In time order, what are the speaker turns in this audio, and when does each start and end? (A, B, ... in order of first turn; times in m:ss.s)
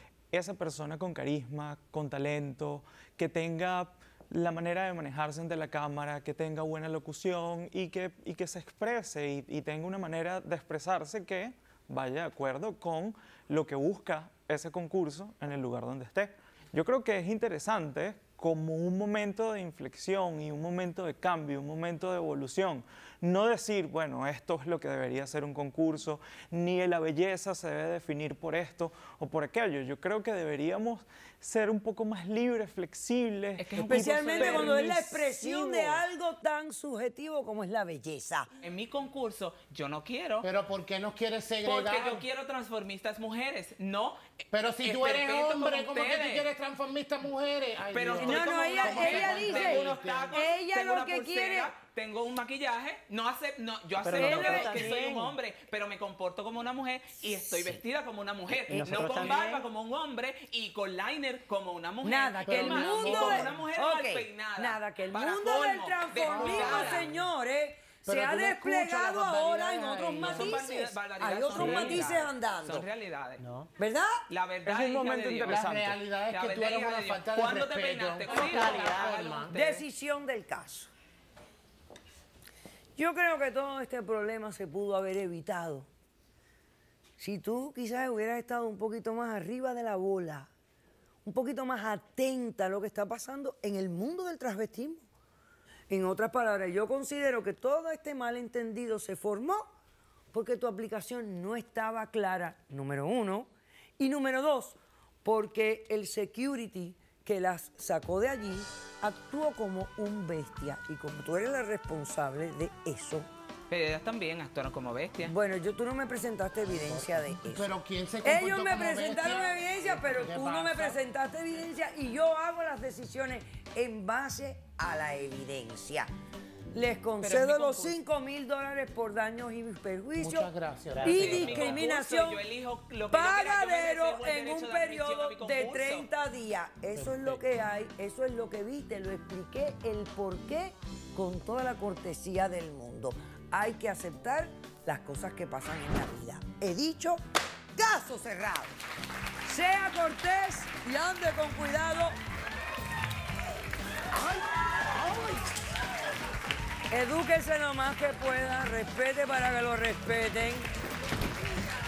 0:00.3-0:36.0 A
0:33.6-0:34.8 B
0:33.8-0:38.5 C
0:38.6-0:40.4 B
0:40.4-0:42.2 D
0:41.6-0:44.2 B
0:44.5-0:50.4 D
0:44.8-0:46.5 B
0:47.9-1:07.1 B
0:48.2-0:51.7 C
0:54.0-0:55.3 E
0:54.2-0:54.9 C
0:57.3-0:57.8 C
0:58.6-0:59.6 E
1:02.0-1:12.8 C
1:02.1-1:03.6 D
1:06.2-1:07.2 D
1:08.0-1:10.6 D
1:10.2-1:13.4 B
1:11.6-1:11.9 E
1:13.4-1:13.7 E
1:13.8-1:14.2 C
1:14.3-1:15.6 B
1:14.6-1:16.0 A
1:15.5-1:19.6 D
1:16.3-1:19.8 B
1:18.5-1:19.0 E
1:19.5-1:20.9 C
1:23.0-1:25.9 C
1:27.2-1:30.5 C
1:31.2-1:35.0 C
1:35.9-1:39.7 C
1:40.3-1:53.3 C
1:53.7-1:55.3 B
1:55.2-1:57.7 C
1:56.9-2:01.0 D
1:58.2-2:06.1 C
2:06.7-2:10.5 C
2:07.2-2:08.0 B
2:10.2-2:11.8 D
2:11.0-2:12.4 C
2:11.0-2:16.0 B
2:13.1-2:27.2 C
2:16.9-2:17.4 D
2:27.8-2:28.8 C
2:29.4-2:32.1 C
2:36.9-2:40.7 C